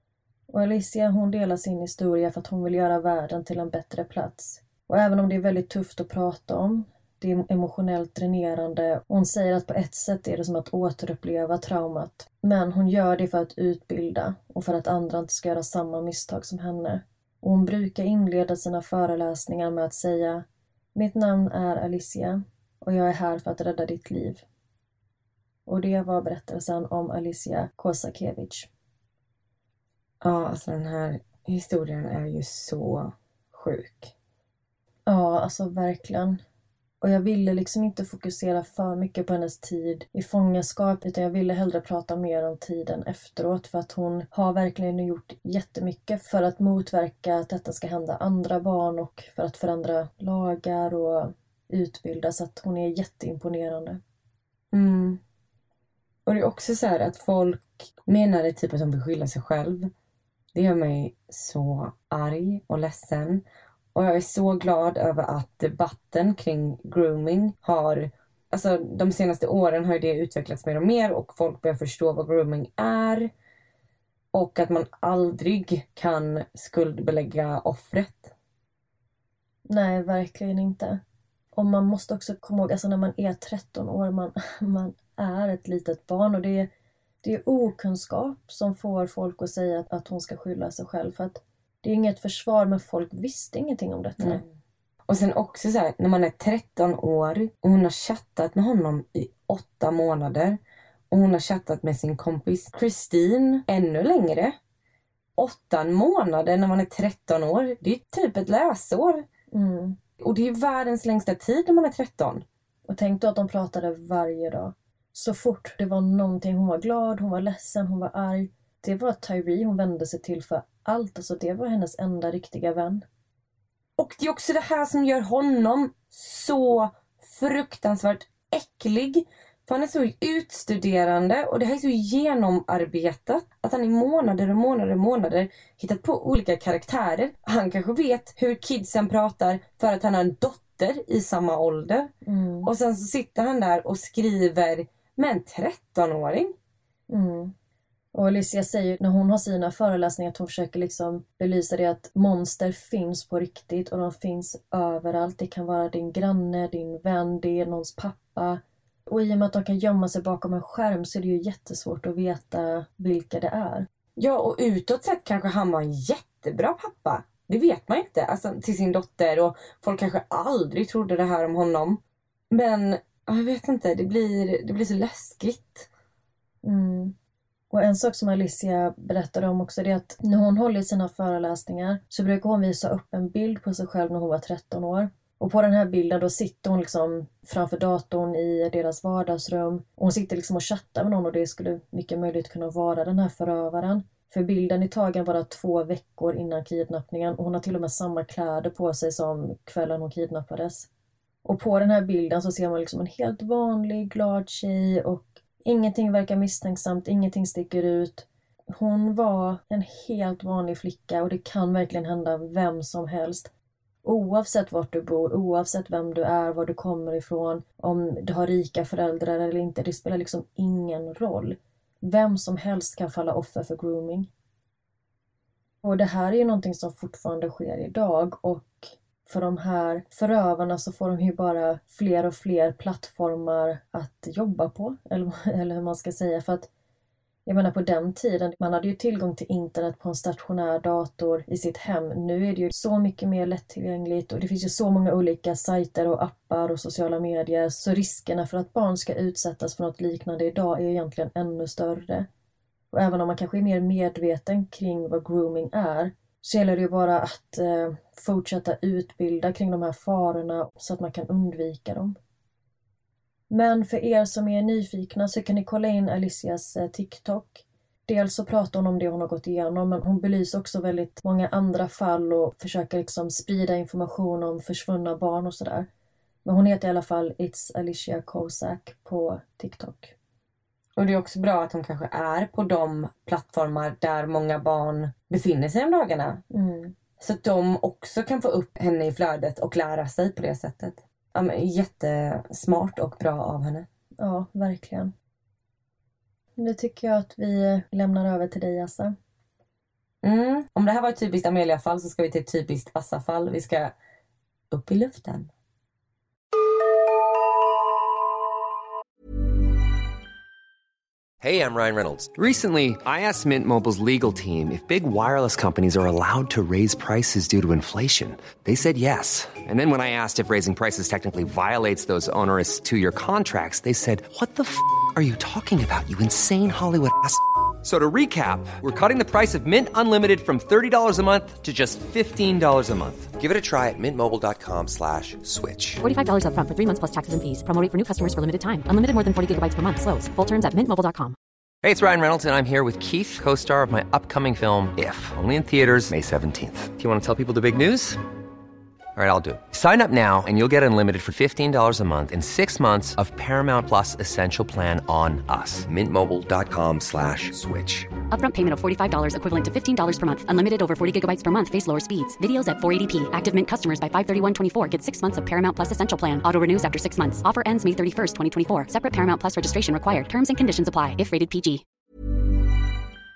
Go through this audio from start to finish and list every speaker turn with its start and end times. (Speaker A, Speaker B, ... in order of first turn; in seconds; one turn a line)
Speaker A: 0.5-20.4
Speaker A: 20.9-24.4
Speaker A: 25.7-28.7
Speaker B: 30.2-34.1
Speaker A: 35.1-36.4
Speaker A: 37.0-54.0
Speaker B: 54.7-55.2
Speaker B: 56.2-59.9
Speaker B: 60.5-63.4
Speaker B: 63.9-73.3
Speaker B: 74.3-78.3
Speaker A: 79.7-81.0
Speaker A: 81.5-86.7
Speaker A: 87.2-94.4
Speaker B: 94.2-94.5
Speaker B: 95.1-100.6
Speaker B: 101.1-104.5
Speaker B: 105.4-109.2
Speaker A: 109.5-110.0
Speaker B: 110.2-112.4
Speaker A: 112.9-123.0
Speaker B: 124.0-142.1
Speaker A: 142.2-142.7
Speaker B: 142.6-146.5
Speaker A: 147.1-147.5
Speaker A: 148.1-163.8
Speaker B: 164.2-172.0
Speaker B: 172.5-175.9
Speaker A: 176.6-177.1
Speaker A: 177.7-200.9
Speaker A: 201.4-213.5
Speaker A: 214.0-224.3
Speaker A: 225.8-236.7
Speaker A: 237.4-252.3
Speaker A: 252.9-262.1
Speaker A: 263.5-275.9
Speaker A: 276.4-280.1
Speaker B: 280.9-286.4
Speaker A: 286.5-286.9
Speaker B: 287.2-293.9
Speaker A: 294.2-295.1
Speaker A: 296.6-299.1
Speaker B: 300.2-303.9
Speaker B: 304.7-305.5
Speaker C: 311.4-336.0
Speaker D: 336.0-341.4
Speaker C: 341.8-348.2
Speaker C: 349.1-358.1
Speaker D: 358.3-371.8